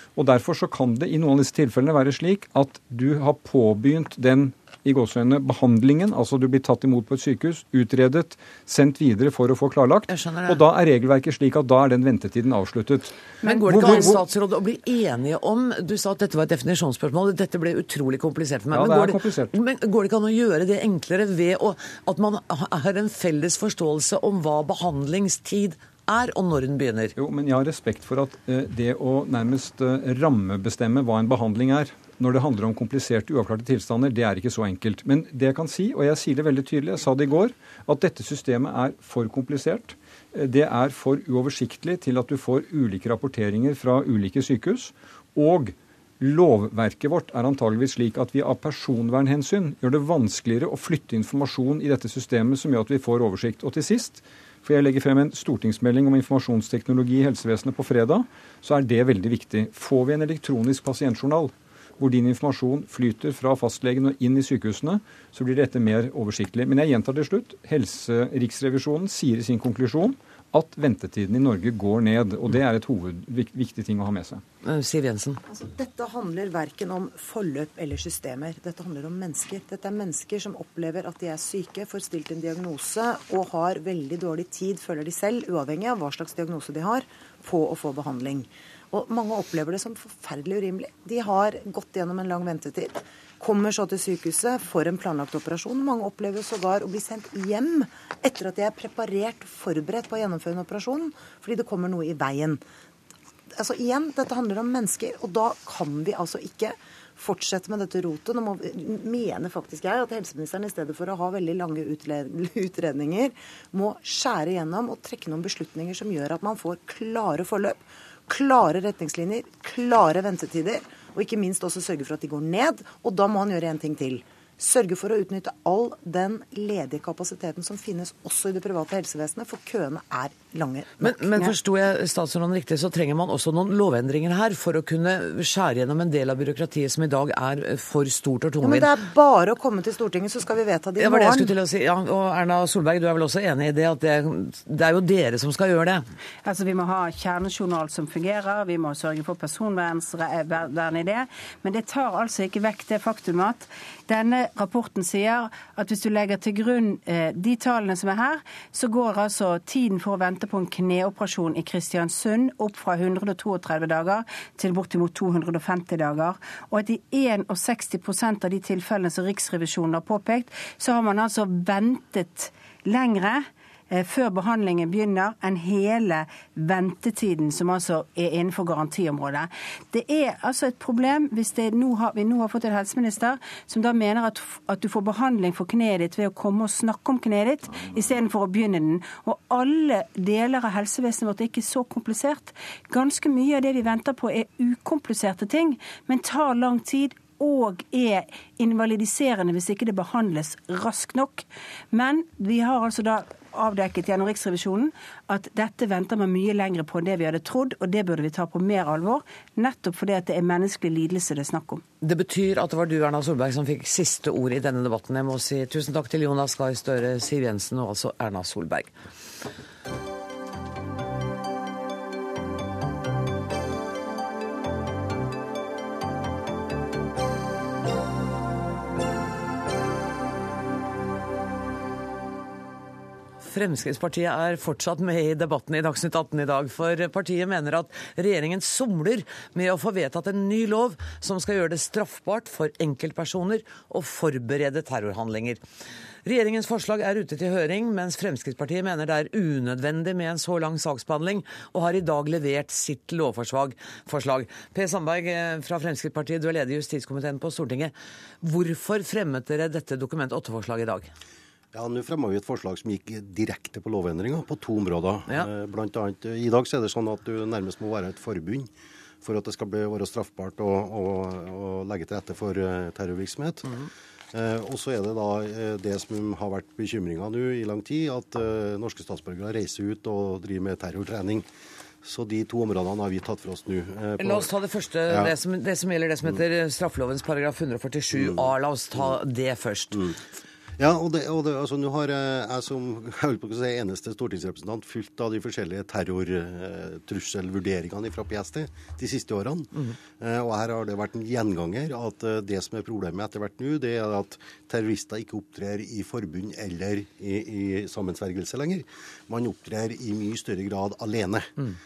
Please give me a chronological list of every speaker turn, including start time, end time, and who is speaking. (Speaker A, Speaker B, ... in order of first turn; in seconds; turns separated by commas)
Speaker A: 0.2-14.2, Speaker B: 10.1-10.6, Speaker B: 13.4-27.1, Speaker C: 13.5-13.8, Speaker A: 18.7-19.5, Speaker A: 27.2-74.4, Speaker B: 74.6-75.4, Speaker D: 75.5-102.6, Speaker D: 103.5-131.6, Speaker B: 131.0-138.9, Speaker D: 138.6-141.5, Speaker B: 141.0-146.0, Speaker C: 146.4-211.8, Speaker B: 212.0-218.9, Speaker B: 233.4-245.6, Speaker B: 246.2-261.1, Speaker E: 261.7-268.7, Speaker E: 269.2-273.7, Speaker E: 274.3-281.5, Speaker E: 282.0-284.5, Speaker B: 284.2-290.1, Speaker E: 285.1-285.3, Speaker E: 288.1-289.1, Speaker E: 290.8-311.5